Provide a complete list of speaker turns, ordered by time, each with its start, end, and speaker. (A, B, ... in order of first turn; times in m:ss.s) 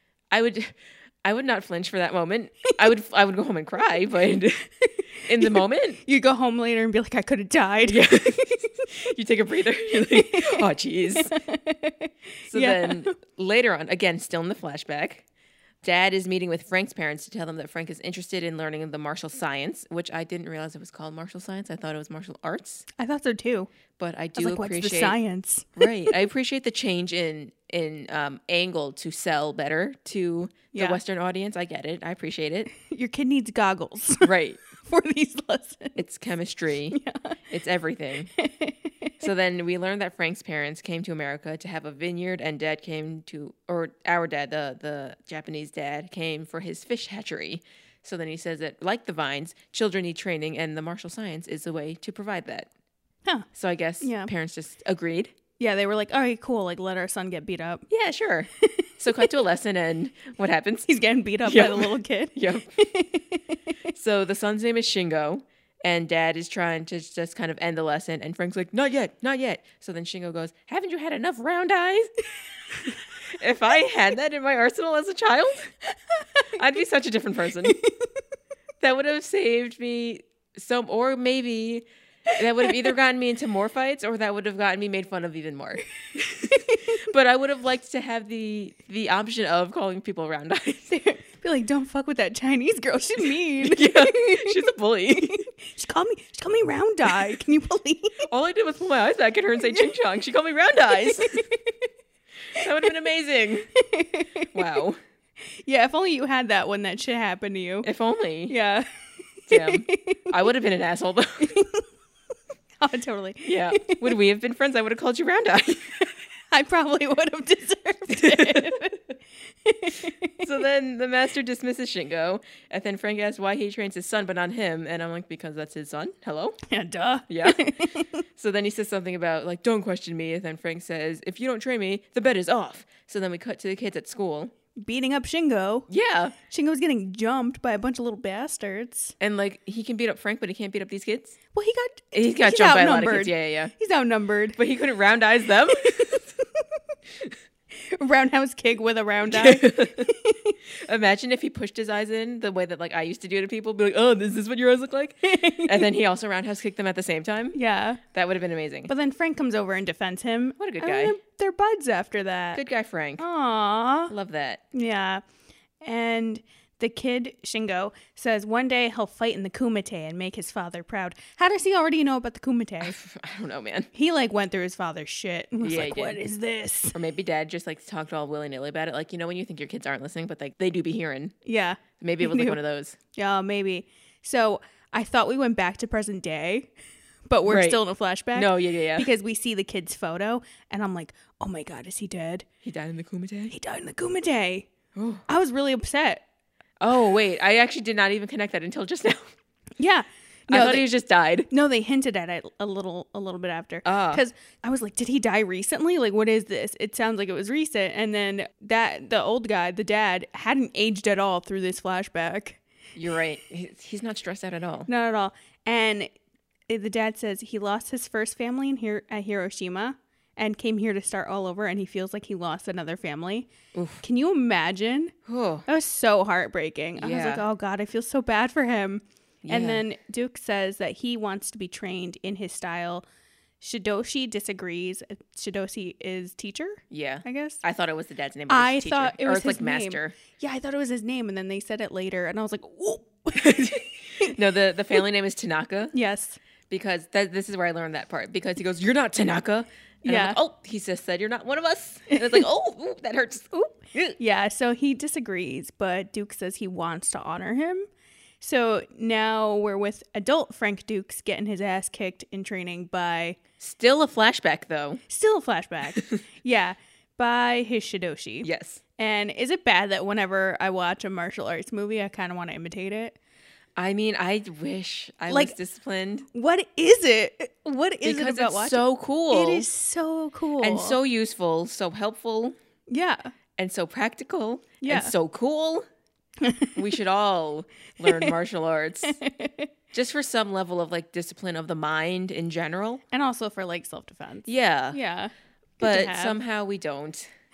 0:00.3-0:06.0 A
0:06.0-0:08.7 B
0:07.9-0:11.3 A
0:09.9-0:13.1 B
0:12.5-0:15.2 A
0:15.8-0:22.8 A
0:23.0-0:23.7 B
0:24.0-0:25.2 A
0:24.4-0:25.8 B
0:25.8-0:32.7 A
0:30.7-0:31.0 B
0:32.7-0:36.0 B
0:34.2-0:34.6 A
0:36.0-0:37.0 A
0:36.9-0:37.4 B
0:37.5-0:38.3 A
0:38.4-0:39.2 B
0:39.2-0:52.7 A
0:53.5-0:55.3 A
0:54.0-0:54.3 B
0:55.6-0:57.8 B
0:57.9-1:00.9 A
0:58.6-0:59.3 B
1:00.9-1:03.6 B
1:01.4-1:02.7 A
1:03.9-1:12.1 A
1:13.3-1:15.7 A
1:16.6-1:17.8 A
1:17.7-1:17.9 B
1:18.8-1:30.9 A
1:26.2-1:26.8 B
1:30.9-1:38.3 B
1:33.6-1:35.4 A
1:38.3-1:41.4 A
1:41.2-1:41.5 B
1:42.5-1:43.7 A
1:43.7-1:44.5 B
1:44.5-1:45.0 A
1:45.5-1:47.9 B
1:47.8-1:48.5 A
1:48.5-1:48.9 B
1:49.5-1:50.2 B
1:49.5-1:51.5 A
1:51.4-1:51.8 B
1:52.8-1:54.1 B
1:53.4-1:56.0 A
1:56.5-1:59.0 B
1:58.1-1:58.8 A
1:59.6-2:00.4 B
2:00.4-2:06.6 A
2:06.7-2:08.2 B
2:07.3-2:07.7 A
2:08.4-2:14.5 A
2:14.8-2:15.9 B
2:15.9-2:16.3 A
2:16.5-2:19.1 B
2:19.2-2:21.4 A
2:21.5-2:24.6 B
2:22.1-2:23.7 A
2:24.6-2:26.3 A
2:27.8-2:30.6 B
2:29.3-2:30.1 A
2:30.8-2:38.9 A
2:35.2-2:35.9 B
2:37.5-2:38.0 B
2:38.9-2:42.6 B
2:40.6-2:41.2 A
2:42.5-2:43.2 A
2:43.2-2:44.1 B
2:44.1-2:44.6 A
2:44.7-2:45.2 B
2:45.8-2:53.0 B
2:52.8-2:53.9 A
2:53.9-2:57.0 B
2:55.6-2:56.2 A
2:56.9-3:01.3 A
3:01.4-3:02.6 B
3:02.0-3:03.0 A
3:03.1-3:06.7 B
3:07.3-3:12.4 B
3:07.4-3:07.8 A
3:08.3-3:09.1 A
3:12.6-3:13.5 A
3:13.5-3:14.7 B
3:14.9-3:15.2 A
3:15.3-3:16.2 B
3:16.8-3:19.3 A
3:19.8-3:20.9 B
3:20.5-3:21.5 A
3:21.5-3:32.6 B
3:23.8-3:24.2 A
3:32.9-3:34.9 A
3:34.9-3:36.1 B
3:36.7-3:43.5 B
3:43.7-3:44.0 A
3:44.0-3:45.1 B
3:45.2-3:45.6 A
3:45.7-3:53.0 B
3:47.0-3:47.4 A
3:49.4-3:49.8 A
3:53.6-3:57.6 B
3:56.9-4:00.2 A
3:58.5-4:04.3 B
4:03.3-4:05.9 A
4:05.9-4:06.4 B
4:06.7-4:14.2 A
4:10.0-4:10.4 B
4:14.2-4:17.9 B
4:18.4-4:23.4 B
4:23.6-4:25.0 A
4:25.1-4:33.2 B
4:28.4-4:28.8 A
4:33.8-4:36.3 A
4:35.3-4:35.6 B
4:36.3-4:41.0 B
4:38.0-4:39.7 A
4:40.6-4:42.6 A
4:42.9-4:43.3 B
4:43.6-4:45.8 A
4:44.8-4:45.1 B
4:46.4-4:46.8 B
4:46.8-4:49.2 A
4:48.0-4:48.3 B
4:49.0-4:49.7 B
4:49.9-4:53.0 A
4:53.1-4:56.4 B
4:54.4-4:55.0 A
4:55.8-4:57.3 A